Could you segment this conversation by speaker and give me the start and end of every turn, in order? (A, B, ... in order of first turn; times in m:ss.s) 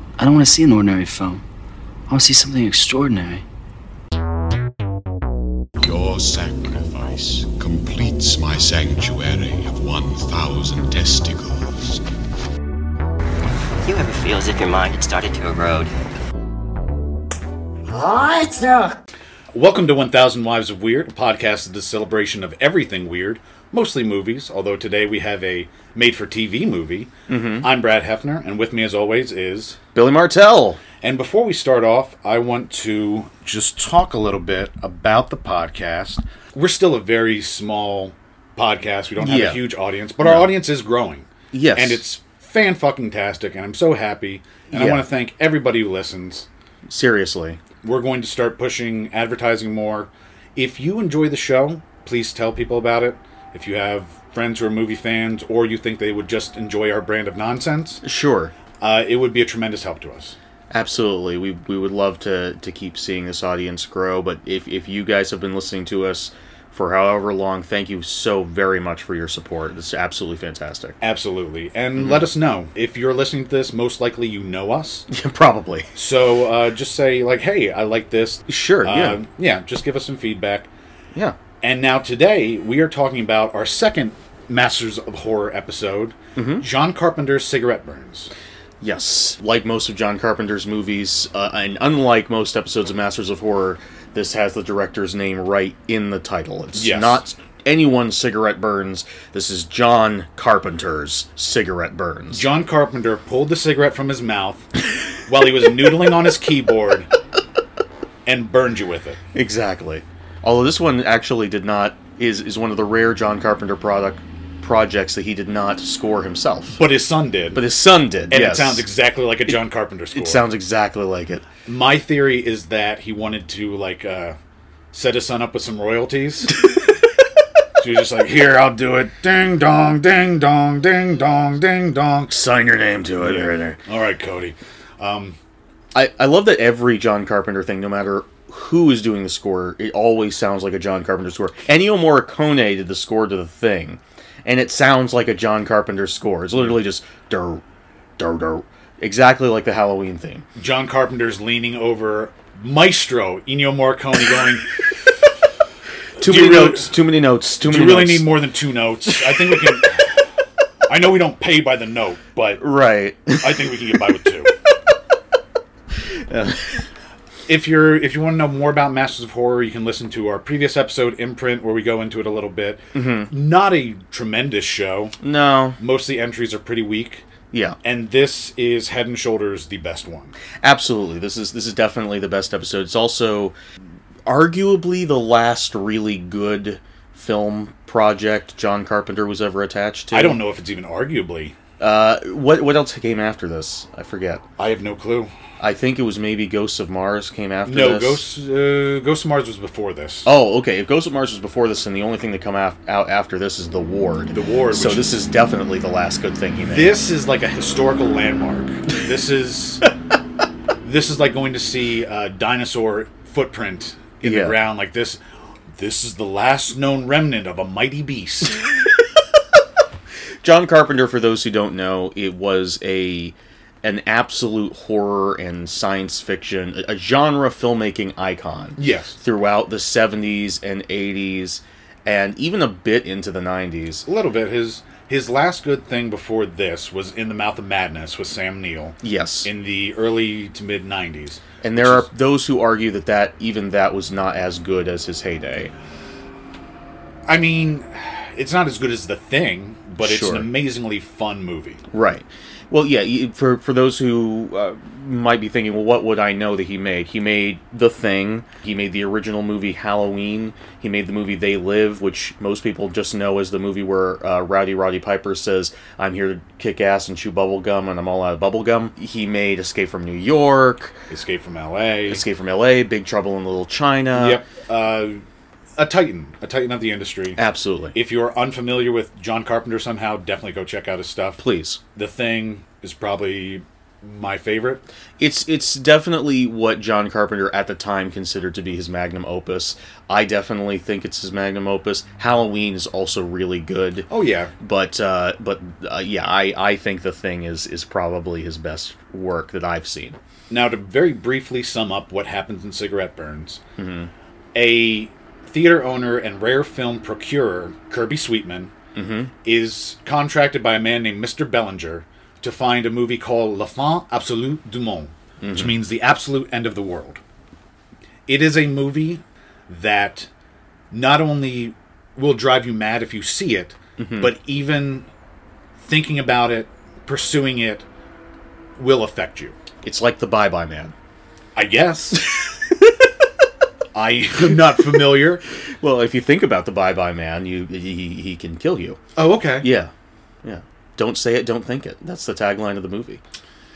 0:00.2-0:01.4 A
0:02.1-0:03.4 A
0:05.8-0:12.0 B
0:13.8-0:15.9 C
0:19.5-0:27.1 D
0:27.3-0:27.7 E
0:27.6-0:29.8 D
0:29.9-0:30.8 E
0:31.0-0:46.5 D
0:39.2-0:39.6 E
0:40.2-0:40.5 E
0:41.5-0:42.0 E
0:44.7-0:45.0 E
0:46.9-0:47.6 E
0:47.8-0:58.0 D
0:58.0-0:58.5 E
0:58.8-1:00.4 D
1:00.7-1:11.0 E
1:11.0-1:15.1 D
1:12.0-1:12.2 E
1:15.1-1:15.9 E
1:15.9-1:20.7 D
1:18.5-1:19.2 E
1:21.6-1:28.3 D
1:26.4-1:26.6 E
1:28.8-1:42.4 E
1:36.7-1:37.2 D
1:42.3-1:44.7 D
1:45.3-1:47.1 D
1:48.2-1:49.2 D
1:49.3-1:56.8 E
1:56.8-1:57.6 D
1:57.5-1:58.8 E
1:58.3-2:00.4 D
2:00.1-2:01.5 E
2:01.6-2:04.4 D
2:04.9-2:06.6 D
2:07.8-2:12.3 D
2:12.3-2:13.8 E
2:13.2-2:15.4 D
2:15.9-2:27.6 E
2:28.2-2:30.4 E
2:30.6-2:34.7 D
2:36.2-2:36.9 D
2:36.2-2:38.3 E
2:37.6-2:40.2 D
2:39.2-2:39.7 E
2:40.9-2:42.6 D
2:42.6-2:44.0 E
2:43.4-2:44.5 D
2:46.1-2:46.8 E
2:47.5-2:55.2 D
2:52.9-2:53.3 E
2:55.2-2:55.8 E
2:55.8-2:57.2 D
2:57.5-2:57.8 E
2:57.8-3:00.3 D
3:00.6-3:03.6 E
3:04.2-3:10.4 E
3:10.1-3:11.6 D
3:11.8-3:14.4 E
3:14.6-3:15.3 D
3:15.6-3:18.2 E
3:17.6-3:20.3 D
3:20.2-3:27.0 E
3:24.3-3:25.2 D
3:26.6-3:29.8 D
3:30.8-3:35.2 D
3:34.2-3:34.6 E
3:35.8-3:38.6 D
3:40.4-3:54.0 E
3:48.8-3:49.2 D
3:54.0-4:02.1 D
3:59.0-3:59.5 E
4:01.6-4:05.7 E
4:07.3-4:11.8 D
4:10.0-4:10.5 E
4:11.9-4:31.0 E
4:31.1-4:32.2 D
4:32.1-4:34.4 E
4:34.1-4:35.2 D
4:35.8-4:37.4 D
4:37.4-4:37.9 E
4:37.9-4:41.4 D
4:41.4-4:41.8 E
4:41.9-4:44.8 D
4:45.2-4:54.1 E
4:54.1-4:54.5 D
4:54.6-5:00.2 E
5:00.5-5:03.6 D
5:03.8-5:04.1 E
5:04.5-5:08.7 D
5:08.9-5:09.3 E
5:09.4-5:17.2 D
5:15.4-5:15.8 E
5:18.3-5:20.3 D
5:20.9-5:25.1 D
5:24.0-5:24.3 E
5:25.8-5:27.8 D
5:28.8-5:29.6 D
5:29.8-5:30.9 E
5:31.6-5:32.2 D
5:33.9-5:35.4 D
5:35.8-5:39.0 E
5:39.2-5:39.7 D
5:39.6-5:39.9 E
5:40.4-5:43.2 E